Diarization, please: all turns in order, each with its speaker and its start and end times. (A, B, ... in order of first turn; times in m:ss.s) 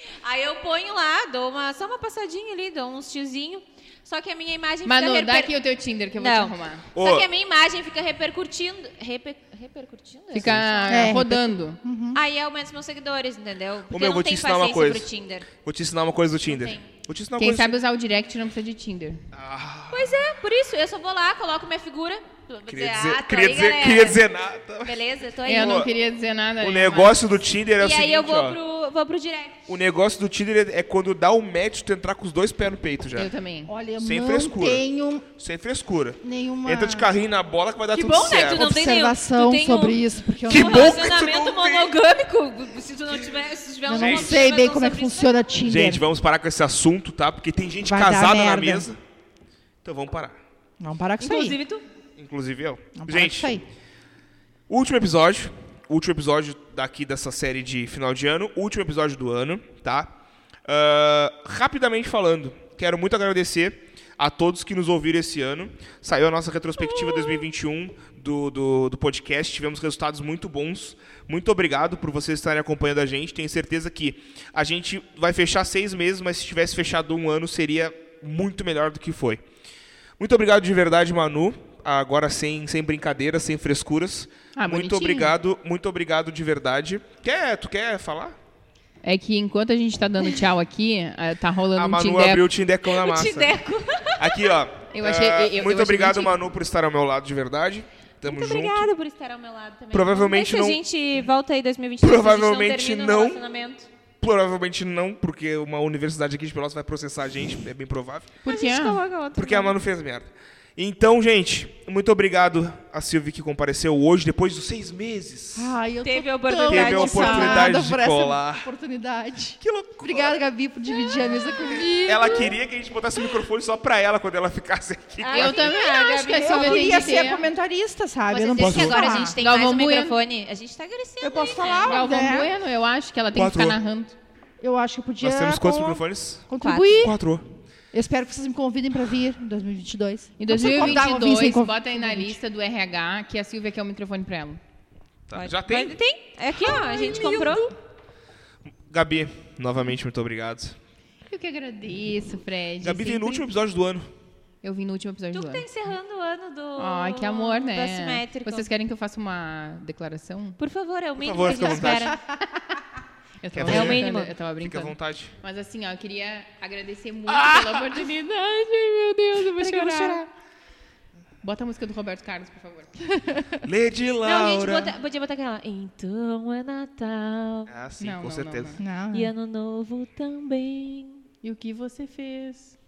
0:00.2-0:05.5 A
0:04.8-0:06.9 B
0:06.2-0:11.2 A
0:06.9-0:07.3 C
0:10.3-0:11.8 B
0:10.4-0:10.9 C
0:10.9-0:12.2 D
0:12.1-0:15.5 A
0:13.9-0:15.1 C
0:15.6-0:17.8 C
0:16.4-0:16.9 A
0:17.4-0:19.2 B
0:19.3-0:20.2 C
0:19.9-0:24.2 A
0:22.7-0:25.0 C
0:24.8-0:25.9 A
0:25.4-0:27.3 B
0:25.5-0:25.9 C
0:26.6-0:28.6 C
0:27.8-0:29.6 A
0:29.7-0:33.3 C
0:33.1-0:33.7 B
0:33.7-0:35.3 D
0:34.0-0:34.8 C
0:35.3-0:38.7 C
0:36.2-0:37.1 D
0:37.9-0:45.3 A
0:38.4-0:41.0 D
0:40.5-0:41.9 C
0:43.8-0:46.0 D
0:43.9-0:44.5 C
0:45.6-0:49.0 C
0:47.8-0:48.9 D
0:49.8-0:50.4 C
0:50.8-0:51.6 D
0:51.2-0:51.8 A
0:52.2-0:53.5 C
0:53.0-0:53.6 D
0:54.7-1:00.1 C
1:00.6-1:19.4 C
1:20.2-1:28.4 C
1:24.5-1:25.4 B
1:29.0-1:32.4 B
1:31.8-1:33.6 C
1:32.8-1:34.5 A
1:34.2-1:38.9 C
1:34.9-1:36.4 B
1:38.2-1:43.9 A
1:39.9-1:40.8 C
1:42.0-1:43.4 C
1:44.2-1:48.3 C
1:48.4-1:49.0 B
1:48.4-1:49.7 A
1:49.3-1:55.7 C
1:55.5-2:02.5 D
1:56.0-1:57.8 A
1:56.7-1:58.7 C
1:59.6-2:00.4 C
2:01.9-2:05.7 C
2:05.2-2:07.4 A
2:05.3-2:07.4 B
2:06.0-2:09.4 D
2:08.3-2:12.0 A
2:08.6-2:09.0 C
2:09.0-2:10.2 B
2:11.2-2:12.5 D
2:11.8-2:14.1 B
2:13.3-2:13.8 C
2:14.6-2:17.1 D
2:15.2-2:17.4 C
2:16.6-2:17.1 A
2:17.9-2:22.4 D
2:20.4-2:24.6 B
2:20.7-2:21.0 C
2:25.3-2:26.0 C
2:25.3-2:27.7 A
2:26.6-2:27.6 B
2:28.9-2:30.8 C
2:31.3-2:33.5 B
2:32.8-2:34.1 C
2:34.6-2:35.6 B
2:35.3-2:38.7 A
2:36.8-2:40.6 B
2:40.6-2:42.2 A
2:41.2-2:42.1 C
2:43.4-2:50.3 B
2:43.5-2:45.3 C
2:43.6-2:44.3 A
2:47.3-2:48.0 C
2:49.5-2:50.2 A
2:51.4-2:53.4 B
2:53.6-2:54.9 C
2:54.2-2:57.7 A
2:57.7-2:58.8 C
2:58.0-2:58.8 B
2:58.8-2:59.3 D
2:59.1-3:01.2 A
3:01.4-3:02.7 B